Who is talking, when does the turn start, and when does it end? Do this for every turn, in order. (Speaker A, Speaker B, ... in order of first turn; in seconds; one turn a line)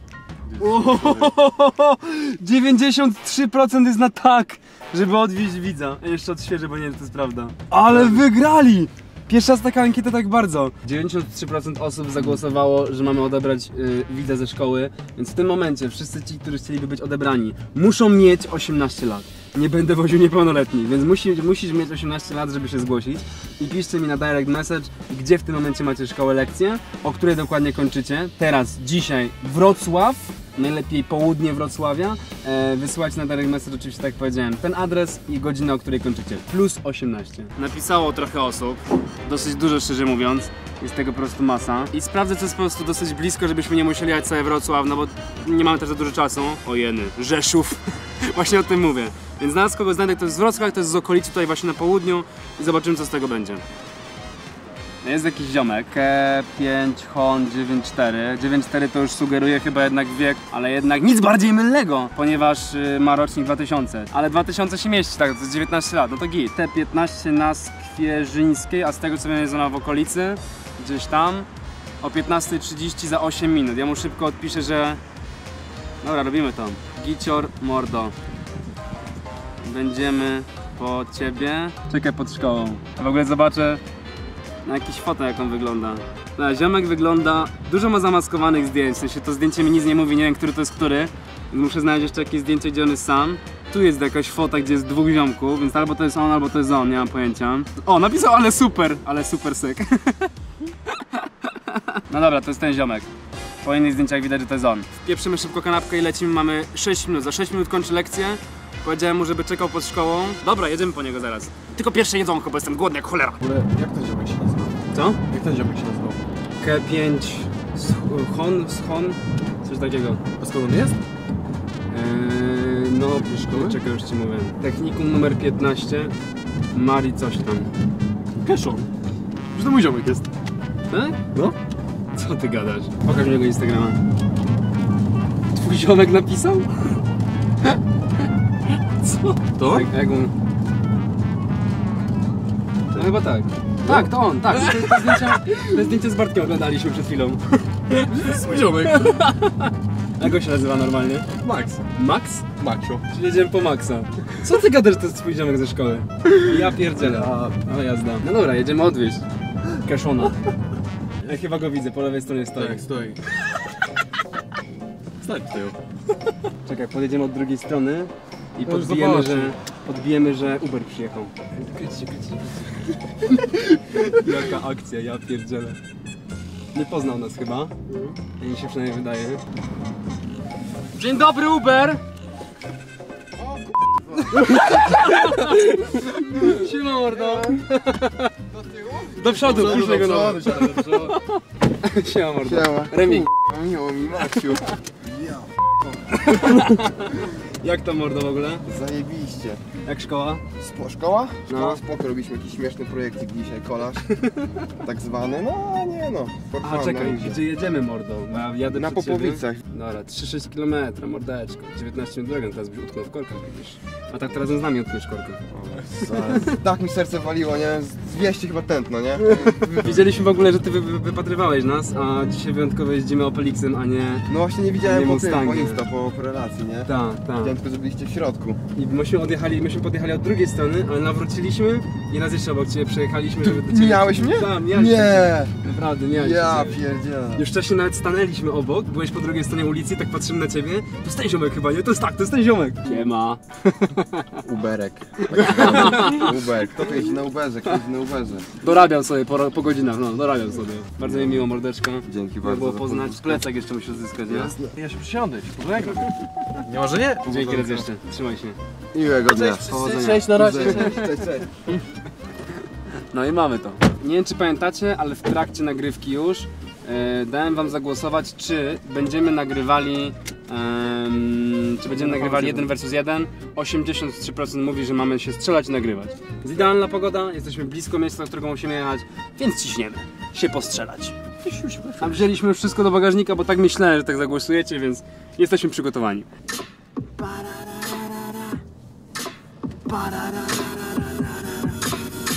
Speaker A: 0.5-1.3
Speaker B: 0.6-53.6
Speaker A: 7.9-8.2
Speaker B: 55.0-71.5
Speaker B: 72.0-75.0
Speaker B: 76.0-78.1
Speaker B: 79.6-83.8
Speaker B: 84.6-100.3
Speaker B: 100.9-103.1
Speaker B: 103.6-113.4
Speaker A: 113.4-114.8
Speaker B: 114.9-115.2
Speaker A: 115.3-116.2
Speaker B: 116.6-120.2
Speaker A: 120.4-121.0
Speaker B: 121.9-126.1
Speaker A: 123.2-123.8
Speaker B: 126.7-127.7
Speaker A: 128.4-128.9
Speaker A: 129.5-130.3
Speaker B: 130.9-131.2
Speaker B: 132.1-134.0
Speaker B: 135.5-136.8
Speaker B: 139.0-140.3
Speaker A: 139.5-139.9
Speaker B: 142.9-148.2
Speaker A: 143.8-145.4
Speaker A: 147.9-149.3
Speaker B: 148.9-151.3
Speaker A: 151.4-151.8
Speaker B: 151.9-152.4
Speaker A: 152.6-153.0
Speaker B: 153.1-159.2
Speaker A: 156.6-157.6
Speaker B: 159.7-160.4
Speaker B: 161.2-162.8
Speaker A: 162.6-163.2
Speaker A: 165.2-165.8
Speaker B: 166.6-175.8
Speaker A: 168.6-169.5
Speaker B: 176.7-177.7
Speaker B: 178.4-179.4
Speaker B: 180.9-182.0
Speaker C: 183.4-185.2
Speaker B: 184.2-188.3
Speaker C: 187.1-187.6
Speaker C: 188.5-190.5
Speaker A: 188.8-191.2
Speaker B: 189.1-193.3
Speaker C: 192.4-195.7
Speaker B: 196.1-198.6
Speaker C: 198.7-199.6
Speaker B: 199.8-200.4
Speaker C: 200.6-204.1
Speaker B: 201.5-201.8
Speaker B: 204.1-204.6
Speaker C: 204.7-207.4
Speaker B: 206.6-215.4
Speaker C: 208.7-209.6
Speaker C: 215.5-220.1
Speaker B: 219.2-224.3
Speaker C: 224.3-228.6
Speaker B: 224.8-225.8
Speaker B: 226.8-227.5
Speaker B: 228.7-236.8
Speaker C: 233.4-235.5
Speaker C: 236.1-237.4
Speaker B: 237.3-244.4
Speaker C: 244.4-248.5
Speaker B: 245.3-246.4
Speaker B: 248.6-254.6
Speaker C: 251.0-251.5
Speaker C: 252.0-253.4
Speaker C: 254.3-254.7
Speaker A: 254.7-257.8
Speaker B: 257.2-258.6
Speaker C: 258.9-259.7
Speaker A: 259.2-261.1
Speaker B: 259.6-261.2
Speaker C: 260.3-261.6
Speaker B: 263.1-281.1
Speaker A: 271.9-272.7
Speaker A: 281.4-282.3
Speaker B: 282.0-286.3
Speaker B: 287.2-288.6
Speaker B: 289.9-291.8